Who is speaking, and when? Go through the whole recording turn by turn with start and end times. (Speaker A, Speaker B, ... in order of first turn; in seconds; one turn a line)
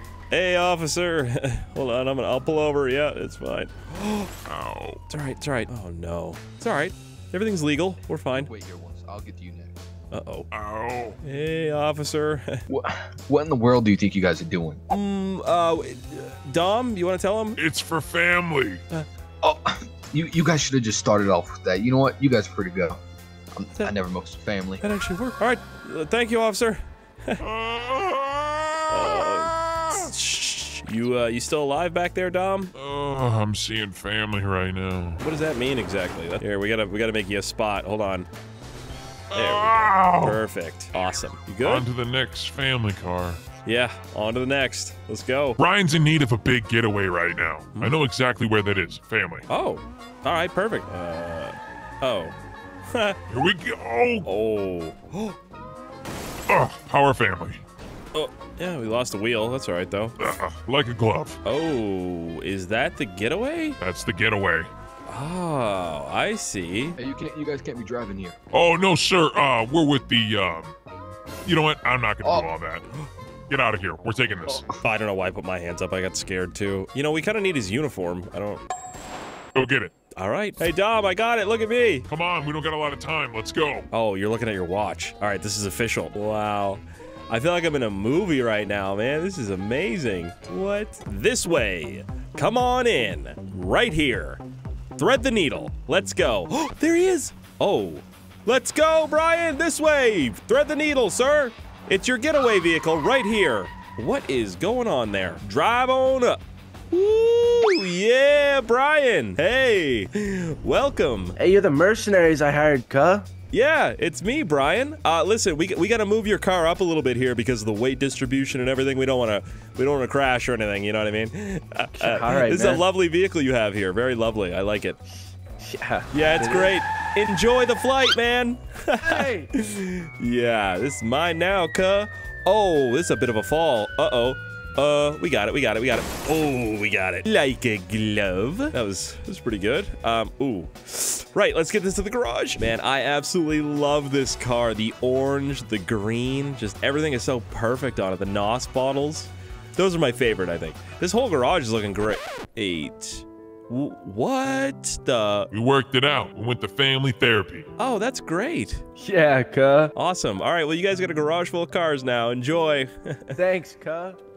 Speaker A: 0.3-4.3
Speaker B: 4.5-5.0
Speaker A: 5.1-8.5
Speaker C: 8.5-9.7
Speaker A: 10.1-10.5
Speaker B: 10.5-11.2
Speaker A: 11.2-12.6
Speaker C: 12.7-14.8
Speaker A: 14.9-17.6
Speaker B: 17.6-18.8
Speaker C: 19.4-23.0
Speaker C: 23.6-24.9
Speaker A: 24.8-27.4
Speaker B: 27.4-29.9
Speaker A: 28.9-32.7
Speaker B: 32.8-35.2
Speaker A: 35.2-38.3
Speaker B: 39.3-40.4
Speaker A: 39.3-41.9
Speaker B: 41.6-43.4
Speaker A: 43.6-45.6
Speaker B: 45.6-49.5
Speaker A: 49.5-52.4
Speaker A: 52.9-53.2
Speaker B: 53.3-54.3
Speaker A: 54.2-55.4
Speaker B: 56.5-57.6
Speaker A: 58.1-60.2
Speaker B: 60.2-61.4
Speaker A: 61.5-63.8
Speaker B: 63.8-64.7
Speaker A: 65.1-67.0
Speaker C: 67.0-68.4
Speaker B: 68.5-70.7
Speaker B: 71.5-72.8
Speaker C: 72.2-72.5
Speaker B: 73.5-74.7
Speaker A: 74.8-78.7
Speaker B: 79.5-79.9
Speaker A: 80.2-82.1
Speaker B: 82.1-83.9
Speaker A: 83.9-94.4
Speaker A: 95.0-111.4
Speaker D: 111.4-113.3
Speaker A: 113.5-125.0
Speaker D: 121.9-122.8
Speaker D: 125.6-126.0
Speaker A: 126.1-155.5
Speaker D: 129.0-129.5
Speaker B: 155.5-157.7
Speaker A: 157.8-158.8
Speaker D: 159.0-159.9
Speaker A: 160.0-163.4
Speaker D: 163.3-164.2